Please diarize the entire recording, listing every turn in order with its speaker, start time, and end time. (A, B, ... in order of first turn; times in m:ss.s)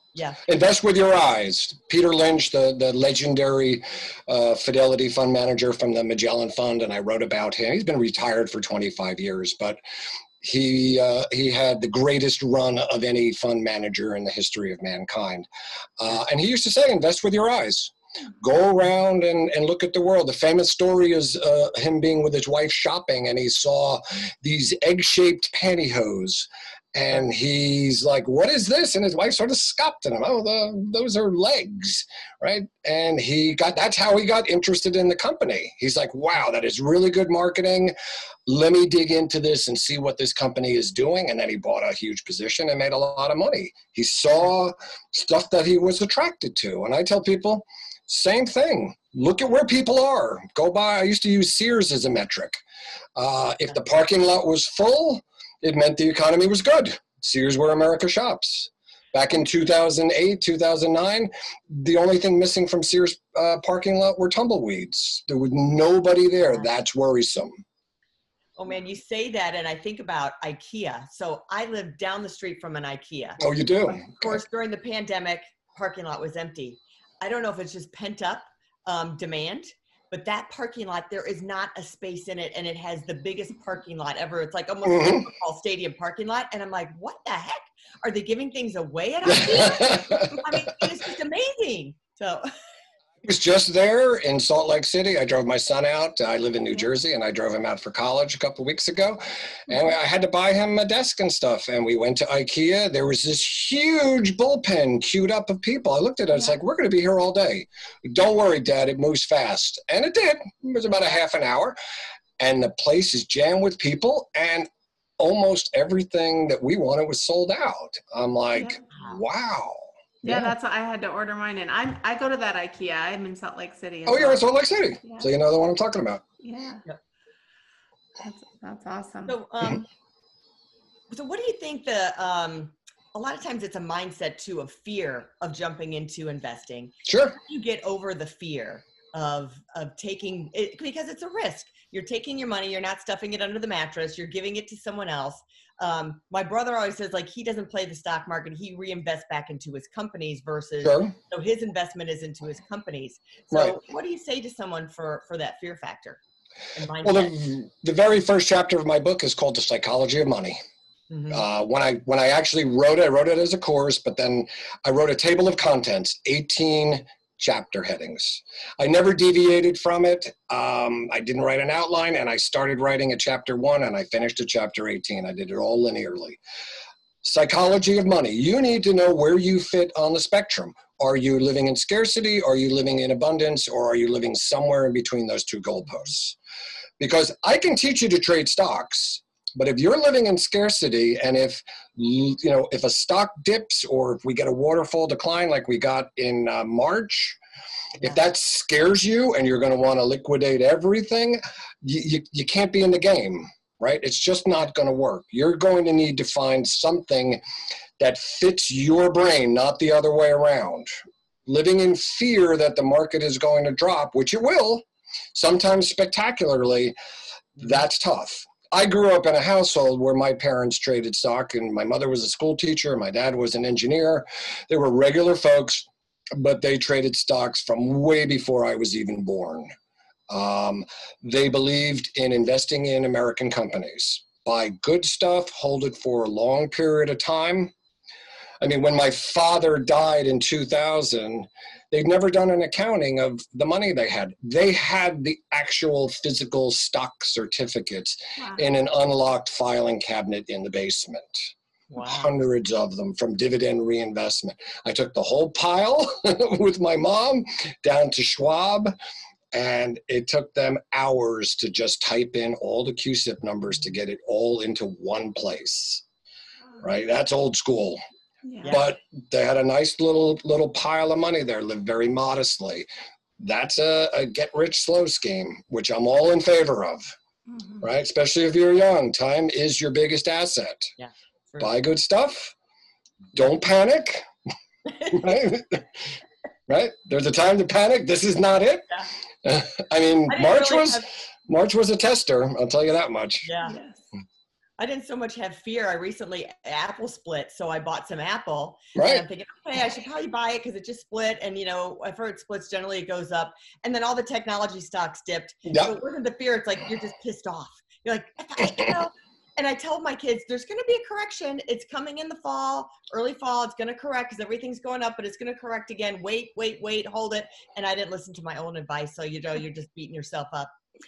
0:00.2-0:00.4 A
0:00.5-0:09.8 B
0:10.4-0:15.5 B
0:16.0-0:37.9 B
0:38.5-0:52.6 B
0:53.2-1:07.6 B
1:08.6-1:32.5 A
1:13.4-1:14.4 B
1:24.8-1:25.3 B
1:29.3-1:30.5 B
1:33.2-1:51.8 B
1:52.4-1:54.7 B
1:55.2-2:00.5 B
1:58.6-1:58.8 C
2:00.2-2:04.4 C
2:04.1-2:06.2 B
2:05.0-2:05.3 C
2:06.4-2:06.8 C
2:08.2-2:09.4 C
2:09.3-2:09.9 A
2:11.1-2:36.2 A
2:17.1-2:17.4 B
2:30.8-2:31.1 B
2:36.8-2:37.3 A
2:37.0-2:40.6 B
2:41.1-2:41.4 A
2:41.3-2:56.4 B
2:57.2-3:06.4 B
3:07.0-3:17.4 B
3:18.0-3:27.4 B
3:28.0-3:30.9 B
3:31.5-3:37.0 B
3:37.6-3:49.7 B
3:50.3-3:57.7 B
3:58.6-4:18.9 B
4:08.4-4:08.6 C
4:11.9-4:12.3 A
4:19.5-4:26.0 B
4:26.8-4:28.0 B
4:28.4-4:28.8 C
4:28.7-4:32.9 B
4:33.4-4:37.0 B
4:37.5-4:37.8 C
4:37.8-4:40.9 B
4:41.0-4:41.7 A
4:41.6-4:42.5 B
4:43.4-4:44.3 B
4:45.1-4:45.8 B
4:46.7-4:53.5 B
4:50.3-4:51.0 A
4:53.4-4:53.8 A
4:53.6-4:54.0 C
4:54.8-5:20.7 A
4:59.0-4:59.2 B
5:05.7-5:06.0 B